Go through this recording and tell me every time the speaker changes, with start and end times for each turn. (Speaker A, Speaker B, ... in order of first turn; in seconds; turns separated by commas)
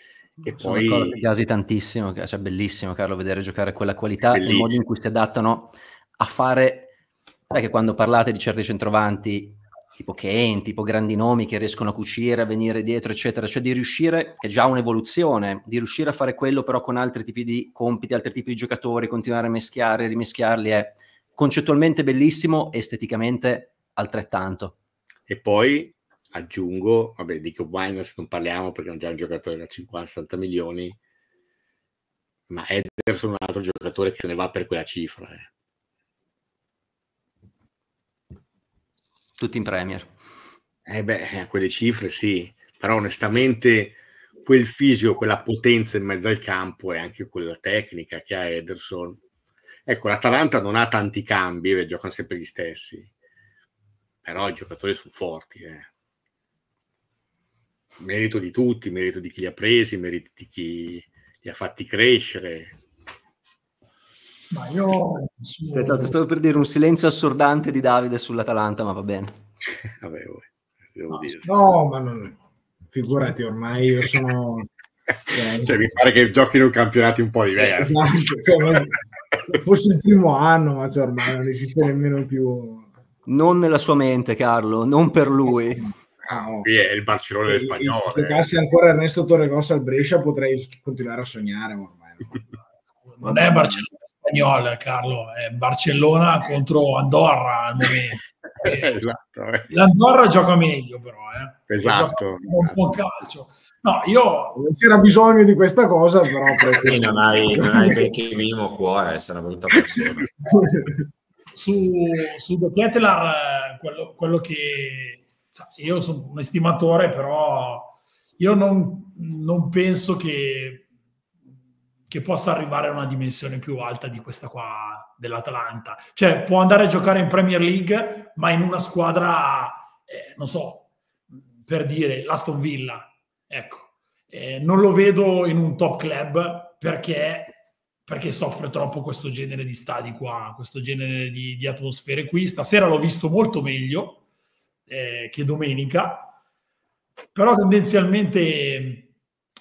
Speaker A: 0.4-1.2, Speaker B: 0.5-6.9, Speaker A: 4.3-4.8, Speaker B: 7.5-24.8, Speaker A: 25.3-31.0, Speaker A: 32.5-35.5, Speaker B: 39.4-40.1, Speaker A: 40.9-49.2, Speaker A: 49.9-53.1, Speaker A: 54.2-55.9, Speaker A: 58.0-62.8, Speaker C: 64.5-66.2, Speaker B: 65.7-69.4, Speaker A: 69.8-71.5, Speaker D: 71.4-72.4, Speaker D: 72.9-74.7, Speaker A: 75.3-78.9, Speaker D: 75.3-75.8, Speaker D: 77.5-82.9, Speaker B: 83.2-85.9, Speaker A: 86.3-88.5, Speaker D: 86.3-86.7, Speaker D: 87.5-92.4, Speaker C: 93.1-98.9, Speaker D: 93.2-93.9, Speaker A: 98.6-99.7, Speaker C: 99.7-104.6, Speaker A: 101.7-102.8, Speaker D: 104.5-108.1, Speaker E: 106.7-110.3, Speaker D: 110.5-110.9, Speaker C: 111.5-120.8, Speaker C: 122.1-130.9, Speaker C: 131.6-144.2, Speaker C: 144.9-146.3, Speaker C: 147.3-149.1